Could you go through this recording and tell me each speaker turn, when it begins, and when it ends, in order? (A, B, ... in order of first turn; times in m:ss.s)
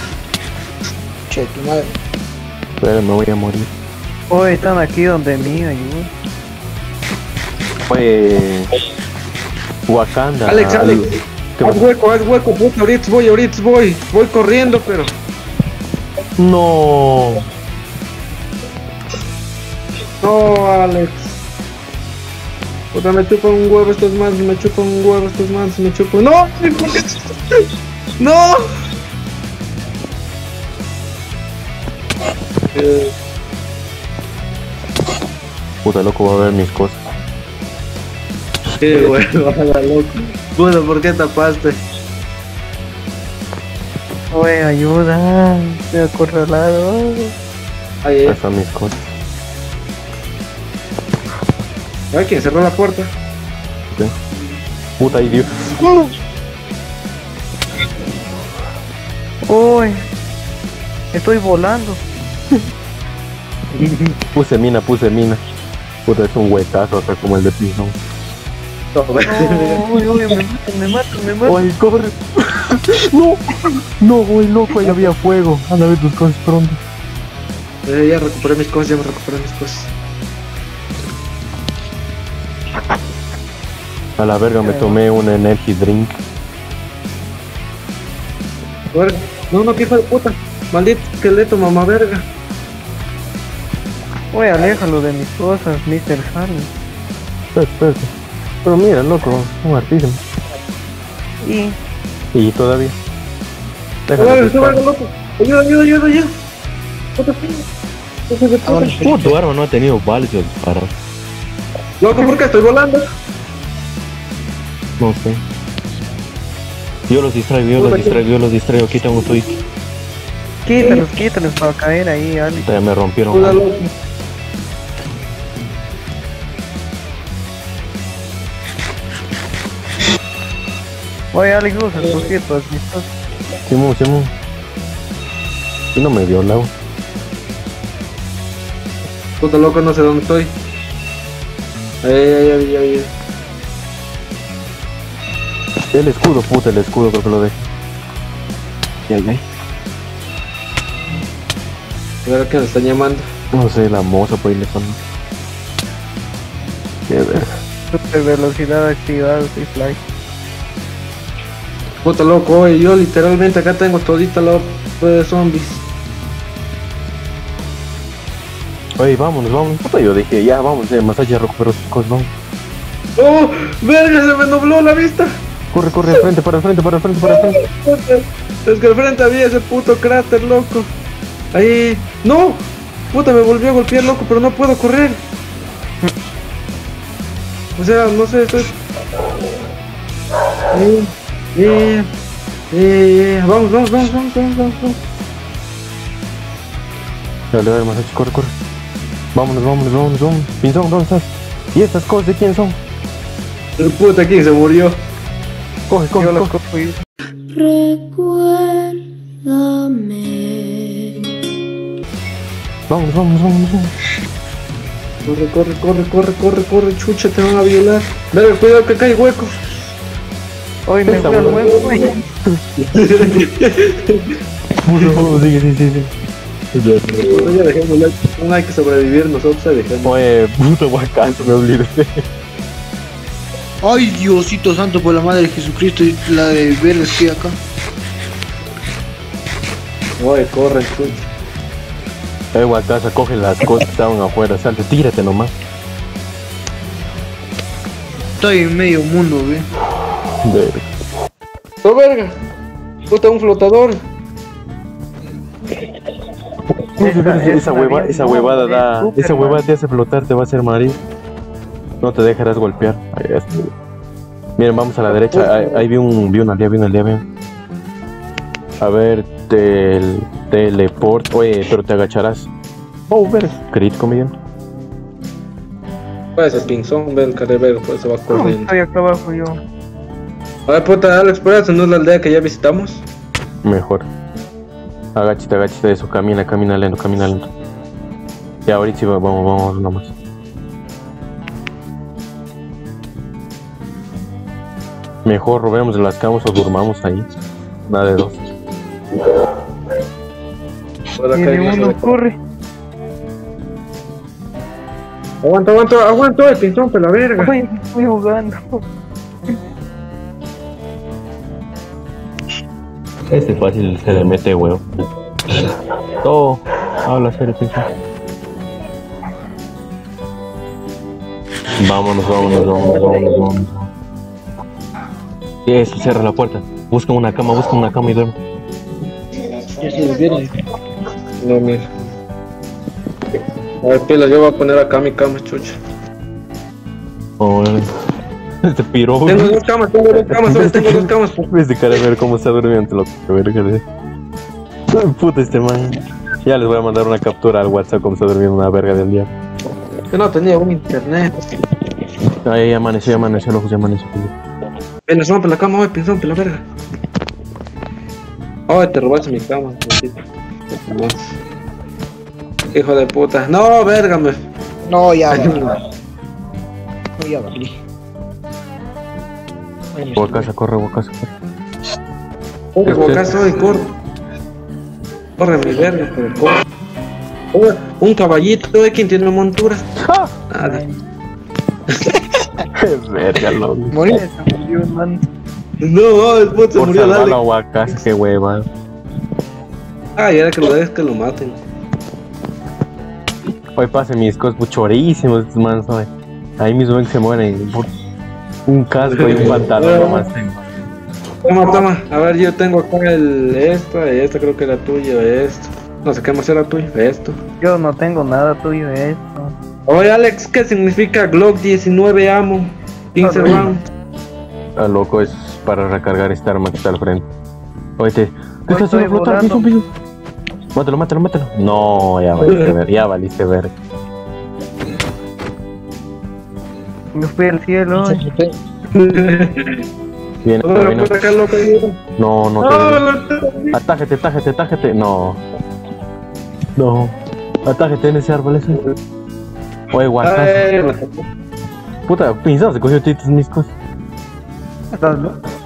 0:01.3-0:01.9 A
0:02.8-0:03.7 B
0:04.3-0:06.1 C
0:07.9-0:08.7 B
0:09.9-0:11.8 B
0:10.4-0:15.1 D
0:16.4-0:17.4 B
0:20.2-0:21.4 D
0:22.9-0:27.7 D
0:28.2-0:28.6 D
0:32.7-0:33.1 D
0:35.8-0:37.0 B
0:38.8-0:41.8 D
0:44.3-0:47.3 C
0:48.0-0:48.4 D
0:48.2-0:49.1 B
0:52.1-0:53.1 D
0:55.0-0:55.5 B
0:59.4-1:00.0 C
1:01.1-1:02.0 C
1:04.3-1:05.4 B
1:06.0-1:08.0 B
1:08.9-1:09.8 D
1:09.2-1:11.6 C
1:11.4-1:16.8 B
1:17.8-1:19.9 D
1:24.2-1:26.2 B
1:24.6-1:25.0 C
1:28.9-1:32.3 D
1:34.3-1:36.7 C
1:37.5-1:38.1 B
1:38.6-1:40.2 B
1:41.4-1:41.8 C
1:42.3-1:42.9 B
1:44.1-1:44.8 B
1:44.2-1:46.3 D
1:47.2-1:47.6 D
1:48.3-1:49.1 D
1:48.6-1:49.3 A
1:49.0-1:50.9 B
1:52.0-1:53.0 D
1:55.0-1:55.4 B
1:57.1-1:59.5 B
1:57.8-1:58.2 D
2:00.6-2:02.7 C
2:02.6-2:03.6 B
2:03.3-2:03.9 D
2:11.3-2:13.1 C
2:13.6-2:14.3 B
2:15.9-2:16.7 B
2:19.4-2:20.5 D
2:22.0-2:23.1 D
2:25.9-2:27.7 B
2:29.1-2:29.4 B
2:32.2-2:33.3 D
2:33.5-2:35.0 B
2:37.1-2:37.6 B
2:37.9-2:40.0 C
2:42.0-2:45.8 D
2:49.0-2:52.3 B
2:53.2-2:55.4 D
2:55.7-2:57.6 B
2:57.2-3:00.9 D
3:01.5-3:05.2 D
3:07.8-3:08.7 D
3:10.7-3:12.1 D
3:12.7-3:15.0 D
3:17.5-3:18.5 B
3:19.3-3:22.8 B
3:23.8-3:25.0 D
3:25.9-3:26.5 B
3:26.2-3:27.0 C
3:27.5-3:31.3 E
3:32.9-3:33.9 B
3:35.2-3:39.6 D
3:40.9-3:42.2 C
3:41.1-3:41.7 B
3:41.2-3:41.8 D
3:42.4-3:43.4 B
3:42.9-3:44.4 D
3:44.8-3:46.1 B
3:46.7-3:47.5 B
3:47.2-3:50.1 D
3:50.0-3:52.2 B
3:53.8-3:57.6 A
4:00.2-4:01.3 D
4:02.5-4:05.5 B
4:08.4-4:09.7 A
4:10.4-4:10.9 B
4:11.8-4:12.4 D
4:13.1-4:14.0 D
4:17.0-4:19.7 C
4:17.0-4:21.0 B
4:22.0-4:23.7 B
4:24.6-4:27.2 B
4:28.8-4:32.5 B
4:33.1-4:34.3 B
4:36.4-4:38.7 D
4:38.3-4:39.6 C
4:40.7-4:43.0 D
4:43.6-4:44.1 B
4:45.1-4:47.5 B
4:48.6-4:50.1 B
4:55.2-4:57.2 B
4:57.9-4:58.4 B
5:01.2-5:02.1 D
5:01.3-5:02.4 C
5:05.4-5:07.5 D
5:07.4-5:08.8 C
5:13.3-5:14.8 B
5:16.2-5:17.9 B
5:21.8-5:23.9 B
5:22.7-5:23.3 D
5:25.6-5:28.4 B
5:29.8-5:30.5 A
5:31.4-5:31.9 D
5:33.8-5:35.8 D
5:37.4-5:37.9 B
5:38.6-5:39.6 B
5:39.2-5:41.5 D
5:40.1-5:43.8 B
5:44.9-5:49.3 B
5:50.1-5:51.3 D
5:52.4-5:54.3 B
5:55.1-5:56.6 D
5:58.7-6:00.2 D
6:00.7-6:01.4 D
6:02.7-6:04.4 D
6:04.9-6:05.6 A
6:05.3-6:05.8 D
6:07.2-6:07.8 A
6:09.9-6:10.5 A
6:10.2-6:11.3 B
6:12.7-6:13.9 D
6:12.8-6:13.4 B
6:15.4-6:16.6 D
6:17.5-6:19.9 D
6:20.0-6:20.3 B
6:20.5-6:20.8 D
6:20.6-6:21.0 C
6:21.9-6:22.2 D
6:22.7-6:23.9 B
6:23.9-6:24.2 A
6:24.0-6:25.2 C
6:25.8-6:27.4 D
6:26.8-6:28.7 B
6:30.2-6:31.6 D
6:33.7-6:37.9 B
6:38.7-6:40.6 B
6:39.1-6:40.2 D
6:41.4-6:47.4 D
6:47.6-6:49.5 C
6:49.9-6:53.8 D
6:53.2-6:53.7 C
6:54.8-6:57.3 B
6:58.0-6:59.8 B
6:58.7-6:59.6 C
7:00.7-7:03.7 B
7:02.4-7:02.7 D
7:07.1-7:08.2 C
7:07.9-7:08.5 A
7:08.9-7:09.8 D
7:10.4-7:11.1 B
7:10.6-7:12.0 D
7:12.2-7:13.0 B
7:12.6-7:13.8 D
7:13.7-7:15.4 B
7:16.8-7:18.9 B
7:19.9-7:20.6 B
7:20.2-7:21.2 D
7:22.1-7:23.7 B
7:24.9-7:25.4 C